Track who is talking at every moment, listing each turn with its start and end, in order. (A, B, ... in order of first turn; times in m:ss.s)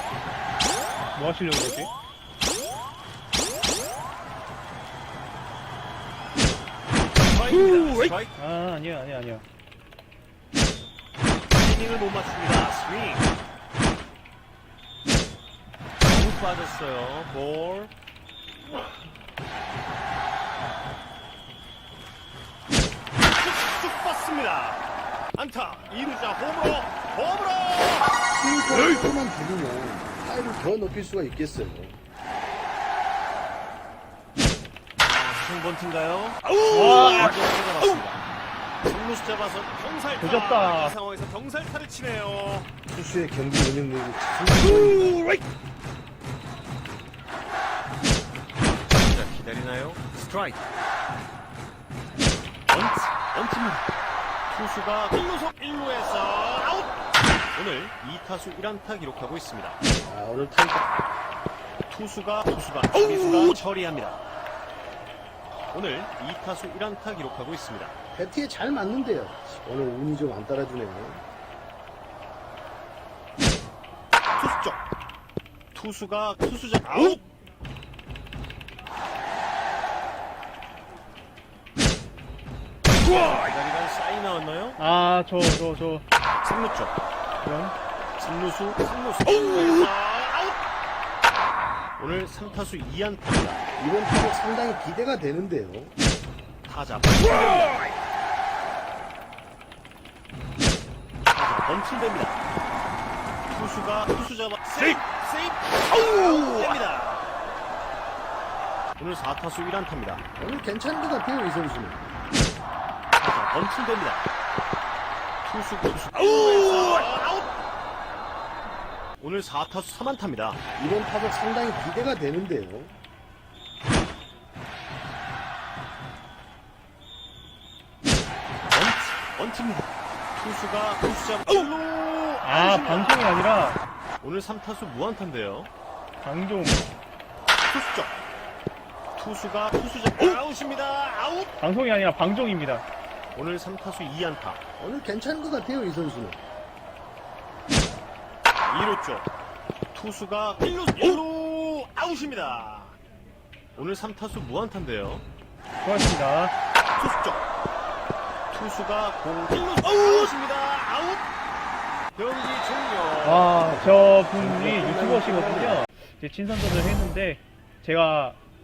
0:01.1-0:01.9 A
0:07.2-0:08.3 B
0:08.3-0:09.4 A
0:11.6-0:13.3 B
0:16.0-0:17.9 B
0:23.4-0:24.8 B
0:25.3-0:28.1 B
0:28.3-0:32.0 C
0:35.0-0:38.2 B
0:36.7-0:37.3 A
0:38.8-0:42.7 B
0:40.2-0:40.9 A
0:42.9-0:45.3 C
0:48.9-0:50.6 B
0:52.7-0:53.9 B
0:54.5-0:57.0 B
0:57.5-0:59.8 B
1:00.0-1:00.9 C
1:01.9-1:04.2 B
1:05.7-1:07.9 B
1:08.1-1:11.2 C
1:14.4-1:14.8 B
1:15.7-1:17.2 B
1:23.0-1:24.8 B
1:24.8-1:26.0 A
1:26.4-1:26.9 B
1:27.4-1:27.7 A
1:28.2-1:30.6 B
1:32.0-1:33.6 B
1:33.8-1:35.9 C
1:36.6-1:37.8 B
1:41.2-1:42.4 B
1:43.5-1:47.3 B
1:49.0-1:50.2 B
1:50.4-1:52.1 C
1:53.2-1:54.2 B
1:55.4-1:57.5 B
1:59.2-2:00.6 B
2:00.8-2:03.0 C
2:08.7-2:13.2 B
2:12.4-2:13.8 A
2:14.2-2:15.7 B
2:16.2-2:16.8 A
2:17.6-2:18.1 B
2:19.1-2:21.5 B
2:21.6-2:22.8 A
2:23.3-2:24.6 B
2:24.8-2:26.4 C
2:28.7-2:29.3 B
2:29.9-2:33.0 B
2:33.8-2:35.2 B
2:35.8-2:36.5 A
2:37.0-2:37.4 B
2:38.5-2:41.2 B
2:42.2-2:43.5 B
2:43.2-2:48.4 A
2:44.3-2:45.8 C